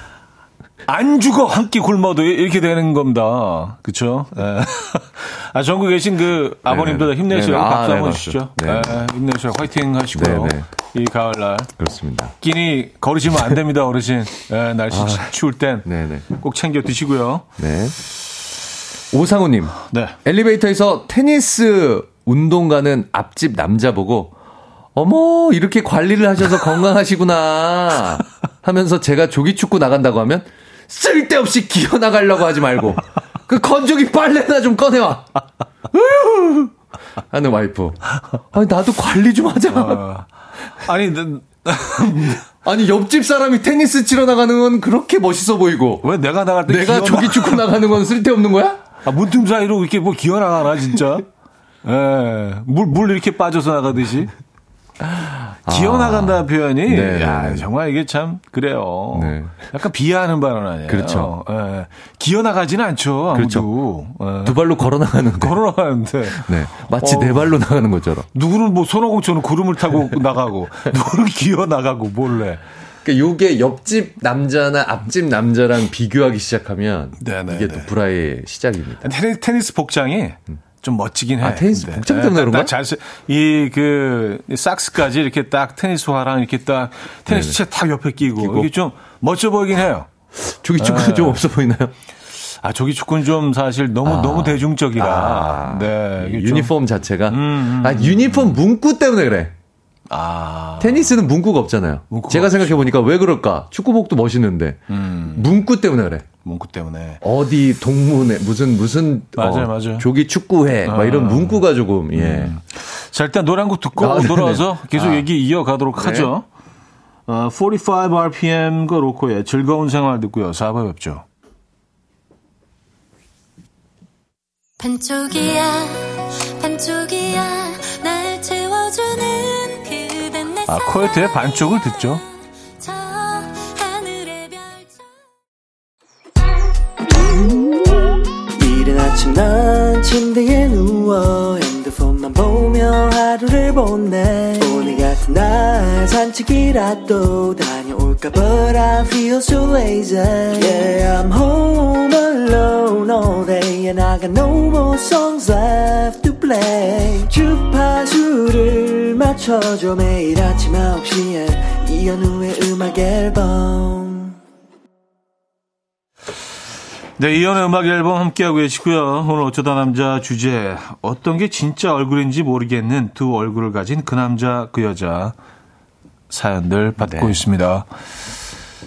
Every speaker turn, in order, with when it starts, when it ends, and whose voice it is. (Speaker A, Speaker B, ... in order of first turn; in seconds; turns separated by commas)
Speaker A: 0.9-11.7, Speaker B: 6.7-8.9, Speaker B: 10.1-10.7, Speaker B: 11.8-12.3, Speaker A: 12.4-17.5, Speaker B: 14.9-15.3, Speaker B: 15.8-16.3, Speaker B: 17.6-18.0, Speaker B: 19.1-24.3, Speaker A: 19.9-20.2, Speaker B: 24.9-35.4, Speaker B: 35.9-36.7, Speaker B: 37.3-40.0, Speaker A: 39.7-42.5, Speaker B: 42.6-46.1, Speaker A: 46.0-47.8, Speaker B: 46.7-48.8, Speaker A: 49.0-51.2, Speaker A: 51.8-54.3, Speaker B: 55.0-57.7, Speaker A: 55.7-64.6, Speaker B: 59.1-59.6, Speaker B: 60.9-61.3, Speaker B: 63.3-63.7, Speaker B: 64.4-65.6, Speaker A: 65.3-67.5, Speaker B: 66.3-68.3, Speaker A: 68.3-72.6, Speaker B: 73.0-79.1, Speaker A: 77.2-77.9, Speaker A: 79.0-90.1, Speaker B: 81.4-82.7, Speaker B: 87.3-87.6, Speaker B: 88.3-88.7, Speaker B: 90.4-91.9, Speaker A: 90.8-91.5, Speaker A: 92.5-96.7, Speaker B: 94.0-99.5, Speaker A: 97.3-98.6, Speaker A: 100.1-101.2, Speaker B: 100.8-106.2, Speaker A: 102.1-102.9, Speaker A: 104.9-105.5, Speaker A: 106.5-107.2, Speaker B: 107.2-112.6, Speaker A: 109.4-110.1, Speaker A: 110.8-116.5, Speaker B: 114.0-115.3, Speaker B: 116.0-116.3, Speaker A: 117.3-121.2, Speaker C: 124.8-131.4, Speaker A: 130.7-132.2, Speaker C: 132.8-135.1, Speaker D: 138.6-164.4, Speaker A: 167.2-175.4, Speaker A: 176.3-177.9, Speaker B: 177.0-177.4